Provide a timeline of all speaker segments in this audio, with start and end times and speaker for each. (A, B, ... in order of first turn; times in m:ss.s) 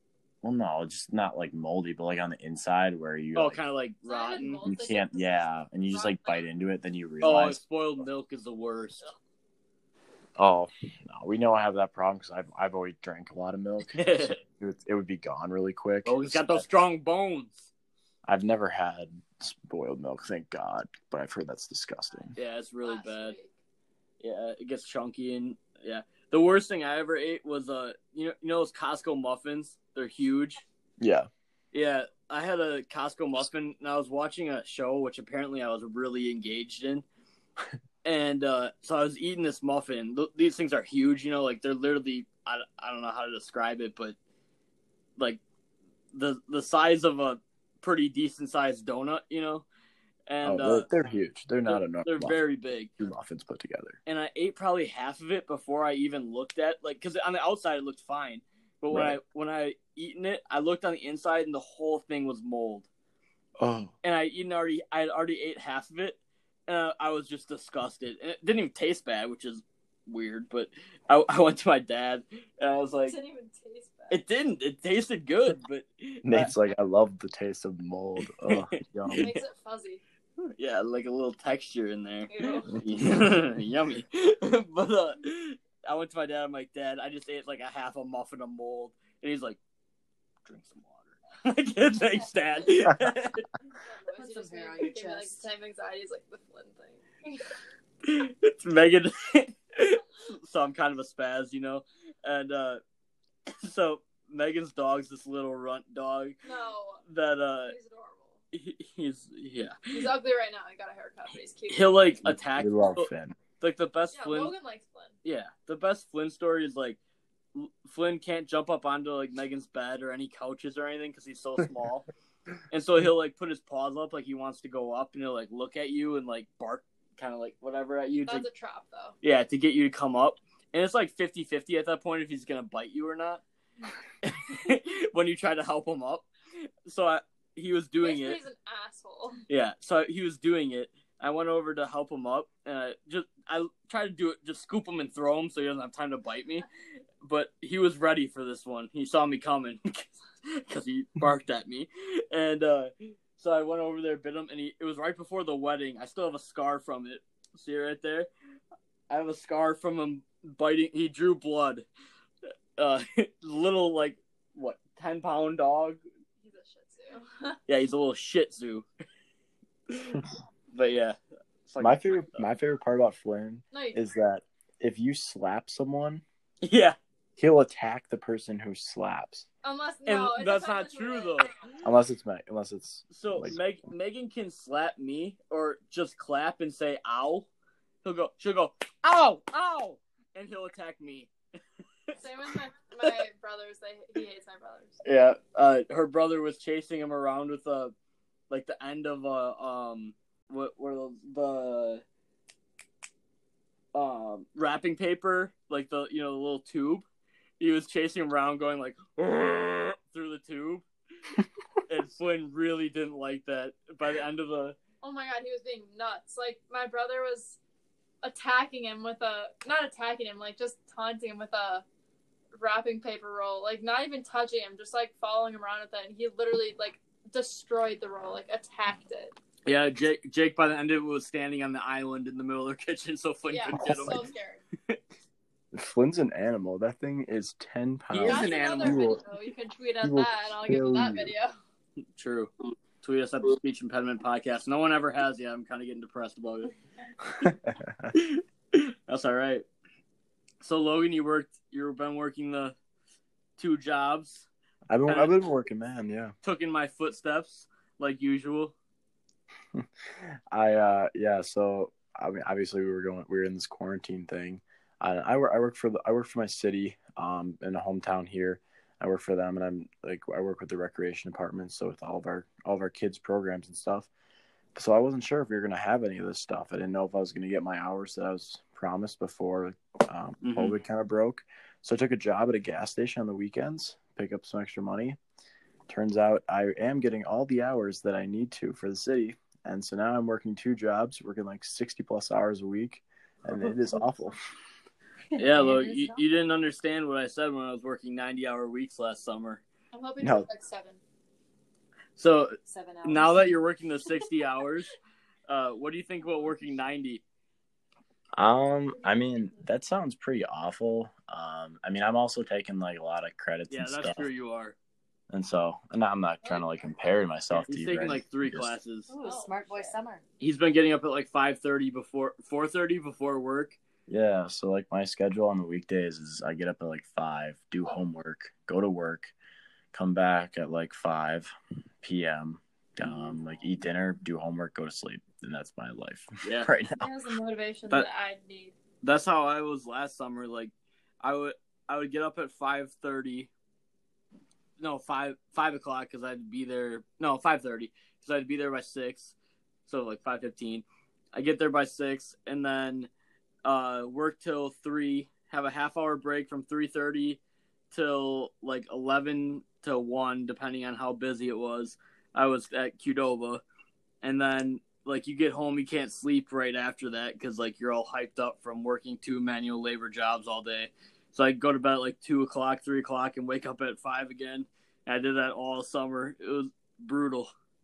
0:00.4-0:03.6 A
0:03.4-0:04.6 B
0:04.0-0:06.5 C
0:04.6-0:07.6 A
0:07.2-0:09.1 B
0:10.4-0:16.7 A
0:13.9-0:14.4 B
0:16.0-0:17.7 B
0:18.3-0:22.4 A
0:22.4-0:23.4 B
0:22.8-0:23.5 C
0:24.2-0:30.6 B
0:31.0-0:31.3 A
0:31.7-0:37.0 B
0:38.0-0:44.2 B
0:46.1-0:49.7 B
0:50.3-0:50.9 B
0:50.4-0:52.4 A
0:51.7-0:52.9 B
0:53.0-0:54.0 A
0:54.1-1:02.9 B
0:58.9-0:59.2 A
1:03.6-1:03.9 A
1:04.0-1:13.2 B
1:13.1-1:14.2 C
1:14.1-1:16.5 B
1:16.2-1:19.3 A
1:18.4-1:19.4 B
1:19.2-1:20.0 C
1:20.4-1:29.6 B
1:22.3-1:22.8 C
1:22.8-1:23.2 A
1:30.4-1:33.5 B
1:33.7-1:37.4 C
1:34.2-1:35.5 D
1:38.0-1:42.8 B
1:43.5-1:46.4 B
1:46.4-1:47.0 C
1:47.1-1:47.8 B
1:47.6-1:48.4 C
1:48.5-1:49.9 B
1:49.9-1:52.1 C
1:51.7-1:53.1 B
1:52.2-1:53.4 A
1:53.6-1:54.5 B
1:54.2-1:55.2 C
1:55.2-1:57.0 B
1:57.6-2:02.1 B
2:02.7-2:08.5 B
2:08.3-2:09.2 C
2:09.2-2:13.4 B
2:14.2-2:16.3 B
2:16.9-2:18.4 B
2:18.0-2:19.4 C
2:19.5-2:26.7 B
2:27.2-2:38.3 B
2:39.1-2:41.8 B
2:42.8-2:46.0 B
2:46.4-2:47.6 C
2:47.7-2:48.9 B
2:49.9-2:52.5 B
2:51.8-2:56.2 A
2:53.7-2:54.0 C
2:56.6-2:57.0 B
2:57.4-2:59.5 A
2:59.6-3:01.6 C
3:00.1-3:01.6 B
3:01.8-3:03.6 A
3:03.1-3:07.5 B
3:08.0-3:11.3 B
3:12.2-3:15.0 C
3:15.0-3:17.9 B
3:18.5-3:22.0 B
3:23.9-3:27.0 B
3:27.6-3:30.8 B
3:31.9-3:34.8 B
3:35.0-3:37.6 C
3:38.2-3:41.8 C
3:42.5-3:49.4 C
3:49.7-3:54.2 B
3:53.5-3:54.6 C
3:53.8-3:54.2 A
3:55.7-3:59.2 A
3:58.1-3:59.1 B
3:58.2-4:01.5 C
4:00.0-4:01.3 A
4:02.2-4:06.7 B
4:07.4-4:08.1 A
4:08.1-4:09.7 B
4:10.6-4:12.8 B
4:13.6-4:14.5 B
4:14.9-4:16.3 A
4:15.1-4:15.3 B
4:16.4-4:18.7 B
4:19.7-4:34.1 A
4:34.8-4:45.2 A
4:40.4-4:40.8 B
4:45.9-4:54.4 A
4:55.3-4:56.3 D
4:55.4-4:59.6 B
4:59.9-5:01.0 C
5:00.2-5:00.5 A
5:02.2-5:04.9 B
5:02.7-5:03.6 D
5:05.5-5:07.2 B
5:08.4-5:14.3 A
5:13.7-5:14.8 B
5:15.3-5:18.7 A
5:17.5-5:19.1 B
5:19.1-5:20.2 D
5:19.2-5:20.0 C
5:20.4-5:23.8 B
5:24.1-5:29.3 A
5:29.9-5:37.1 A
5:36.4-5:36.7 B
5:37.0-5:38.8 C
5:39.0-5:43.5 B
5:44.8-5:49.3 B
5:49.9-5:53.1 B
5:53.6-5:57.4 B
5:57.9-6:03.6 B
6:04.2-6:17.5 B